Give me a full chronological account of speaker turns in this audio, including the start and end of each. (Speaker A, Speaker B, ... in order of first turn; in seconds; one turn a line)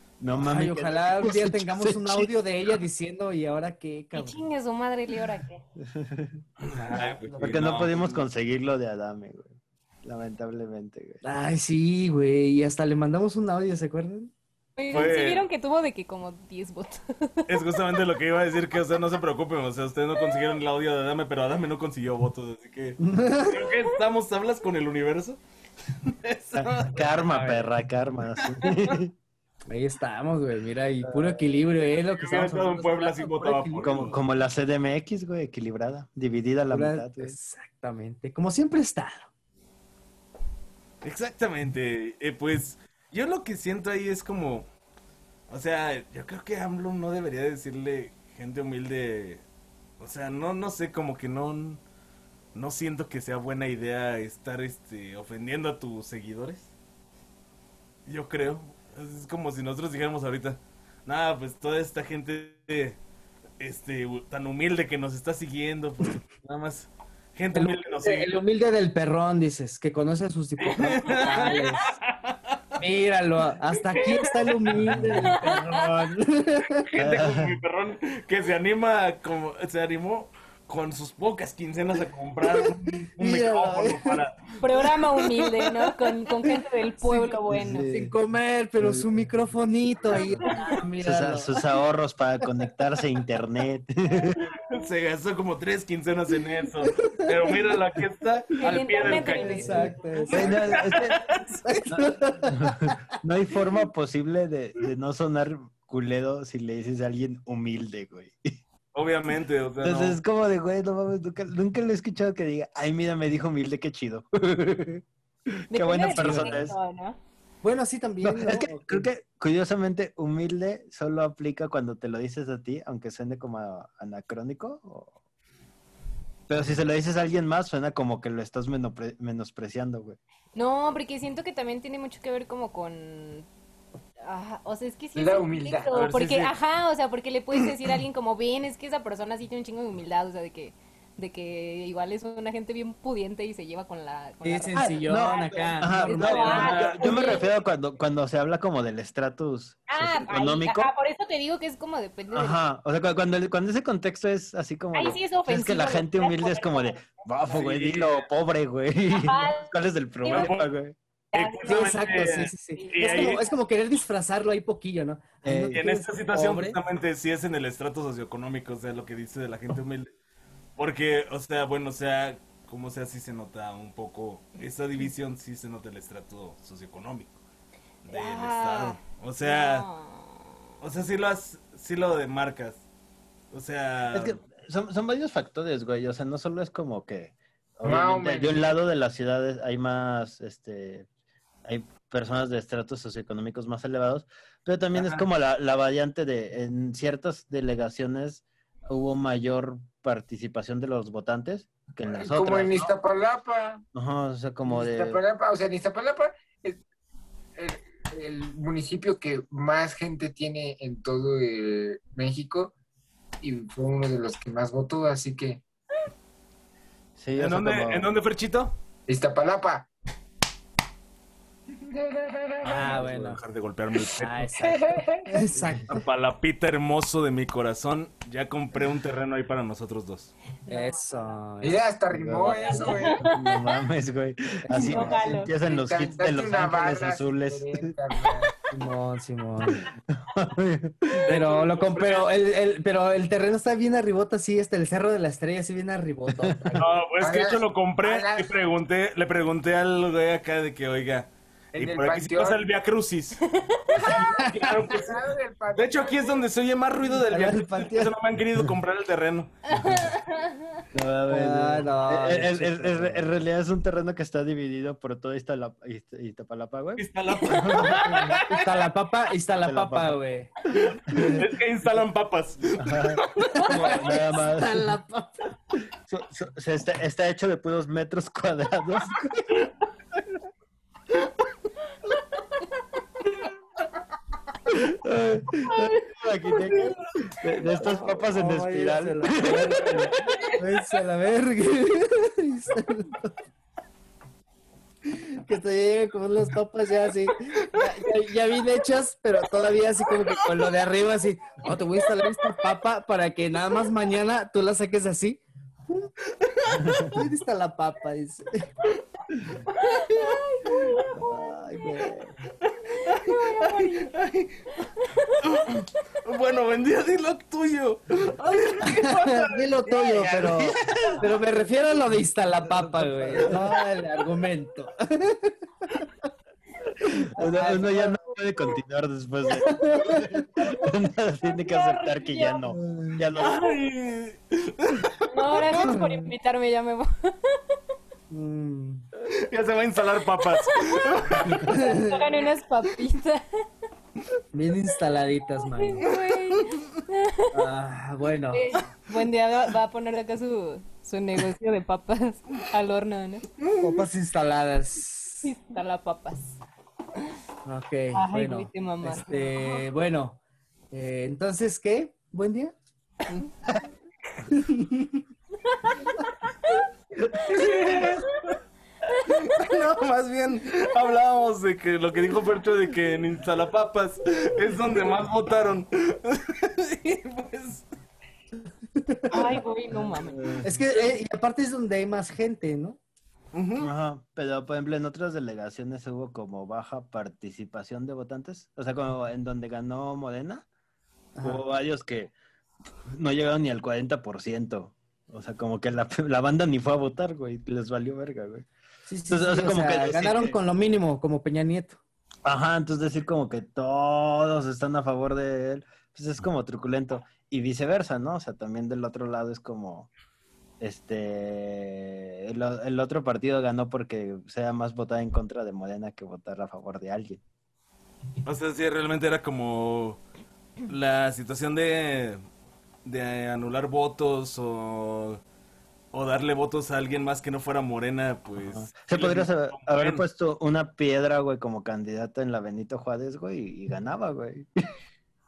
Speaker A: 0.2-2.8
Speaker B: 0.4-4.4
Speaker C: 4.1-5.6
Speaker A: 5.8-6.4
Speaker D: 6.6-8.2
Speaker B: 6.7-7.6
Speaker A: 7.4-9.5
Speaker A: 10.0-11.2
Speaker B: 11.2-14.3
Speaker C: 14.8-17.5
Speaker D: 14.9-15.4
Speaker D: 17.5-25.4
Speaker B: 23.0-23.6
Speaker D: 26.1-27.1
Speaker A: 26.6-29.1
Speaker B: 27.3-27.7
Speaker D: 28.4-28.9
Speaker B: 29.7-34.2
Speaker A: 31.0-31.4
Speaker D: 32.0-34.2
Speaker A: 33.8-37.4
Speaker B: 36.7-39.3
Speaker D: 41.0-44.6
Speaker D: 45.5-49.4
Speaker D: 50.0-51.8
Speaker D: 52.5-56.7
Speaker D: 58.1-63.0
Speaker D: 63.6-68.3
Speaker B: 67.5-72.0
Speaker D: 70.6-72.6
Speaker C: 71.2-71.7
Speaker B: 72.8-76.8
Speaker C: 74.0-74.3
Speaker D: 74.0-74.9
Speaker A: 74.8-75.3
Speaker C: 75.2-75.9
Speaker D: 76.9-86.1
Speaker A: 77.0-77.6
Speaker B: 83.2-84.2
Speaker C: 84.6-87.9
Speaker B: 87.0-91.6
Speaker A: 87.5-88.1
Speaker A: 88.8-89.5
Speaker A: 90.1-94.4
Speaker D: 94.7-101.4
Speaker B: 96.9-97.3
Speaker C: 98.6-100.6
Speaker B: 98.7-100.9
Speaker A: 100.3-101.2
Speaker B: 101.6-103.0
Speaker A: 101.9-108.5
Speaker D: 108.9-110.2
Speaker A: 109.8-115.0
Speaker A: 115.7-116.8
Speaker C: 115.7-117.2
Speaker B: 116.2-116.6
Speaker B: 117.6-119.1
Speaker A: 118.2-125.1
Speaker A: 126.5-130.2
Speaker C: 130.6-133.5
Speaker C: 134.2-147.5
Speaker E: 135.2-135.9
Speaker D: 135.9-136.5
Speaker B: 144.4-146.9
Speaker A: 144.8-150.9
Speaker D: 146.2-147.4
Speaker C: 149.9-152.6
Speaker A: 152.3-161.0
Speaker C: 154.9-157.1
Speaker D: 157.5-158.3
Speaker C: 159.1-159.7
Speaker C: 160.2-160.5
Speaker D: 160.3-160.7
Speaker D: 161.3-163.4
Speaker C: 161.3-162.1
Speaker B: 161.6-166.8
Speaker C: 162.8-163.4
Speaker A: 165.4-165.8
Speaker D: 165.8-170.1
Speaker D: 170.8-177.4
Speaker D: 178.1-179.9
Speaker C: 178.1-180.5
Speaker D: 180.8-182.8
Speaker D: 183.5-184.4
Speaker A: 184.1-191.1
Speaker E: 187.8-188.6
Speaker A: 191.7-202.9
Speaker D: 194.9-195.2
Speaker E: 202.1-203.8
Speaker A: 203.9-205.2
Speaker E: 204.7-206.8
Speaker E: 207.6-212.7
Speaker E: 213.4-215.6
Speaker A: 217.2-218.2
Speaker D: 217.4-218.7
Speaker E: 219.1-219.9
Speaker E: 221.9-223.0
Speaker B: 222.6-223.4
Speaker D: 222.8-224.5
Speaker B: 224.2-226.0
Speaker E: 224.6-225.3
Speaker A: 225.6-225.8
Speaker D: 225.9-230.3
Speaker C: 230.7-231.3
Speaker B: 230.7-232.9
Speaker E: 231.6-233.2
Speaker A: 232.1-237.9
Speaker C: 232.6-233.8
Speaker B: 234.7-235.2
Speaker C: 234.8-235.5
Speaker E: 235.0-238.5
Speaker B: 238.7-239.9
Speaker A: 239.7-241.3
Speaker D: 241.2-242.3
Speaker B: 241.3-246.9
Speaker D: 246.8-253.4
Speaker E: 247.2-248.5
Speaker E: 251.7-252.6
Speaker C: 253.5-254.1
Speaker D: 254.0-259.5
Speaker B: 254.0-254.7
Speaker E: 254.1-256.4
Speaker B: 257.3-258.1
Speaker C: 259.7-260.8
Speaker A: 260.9-268.2
Speaker B: 261.3-263.3
Speaker D: 267.0-268.6
Speaker C: 267.4-267.7
Speaker B: 268.1-271.4
Speaker A: 269.6-270.1
Speaker D: 271.3-273.6
Speaker A: 272.8-274.9
Speaker B: 273.6-275.5
Speaker A: 276.1-279.6
Speaker A: 284.7-290.1
Speaker C: 285.7-286.0
Speaker B: 287.8-293.3
Speaker C: 290.3-290.6
Speaker B: 295.1-306.1
Speaker D: 306.4-307.0
Speaker B: 307.1-308.7
Speaker C: 309.7-311.4
Speaker B: 311.1-312.4
Speaker D: 312.6-314.6
Speaker C: 312.9-314.1
Speaker C: 314.8-315.4
Speaker D: 315.4-321.3
Speaker B: 318.8-325.6
Speaker A: 320.3-320.7
Speaker A: 323.2-323.7
Speaker A: 327.0-333.6
Speaker B: 327.4-328.2
Speaker B: 329.6-330.4
Speaker C: 331.5-332.7
Speaker B: 332.7-333.2
Speaker D: 333.4-335.8
Speaker C: 335.3-337.8
Speaker B: 335.7-336.3
Speaker B: 338.3-339.1
Speaker D: 339.3-341.6
Speaker C: 340.6-343.4
Speaker B: 341.6-342.2
Speaker B: 344.5-346.1
Speaker C: 345.7-347.6
Speaker B: 347.5-348.6
Speaker C: 348.5-353.5
Speaker B: 353.8-355.5
Speaker C: 355.4-356.6
Speaker B: 357.6-360.4
Speaker C: 358.1-359.7
Speaker B: 360.9-362.7
Speaker B: 364.5-365.0
Speaker C: 365.7-366.0
Speaker D: 367.5-368.5
Speaker D: 369.2-377.9
Speaker B: 379.0-379.6
Speaker C: 379.3-380.5
Speaker A: 380.2-380.7
Speaker B: 380.6-383.0
Speaker D: 383.5-383.9
Speaker A: 383.8-390.6
Speaker B: 391.4-391.6
Speaker A: 391.4-392.3
Speaker A: 393.1-398.7
Speaker B: 399.1-402.0
Speaker A: 399.3-400.6
Speaker A: 402.4-410.1
Speaker A: 410.8-417.4
Speaker D: 418.4-420.2
Speaker D: 420.9-422.4
Speaker D: 423.1-425.4
Speaker D: 426.1-430.2
Speaker A: 428.6-434.7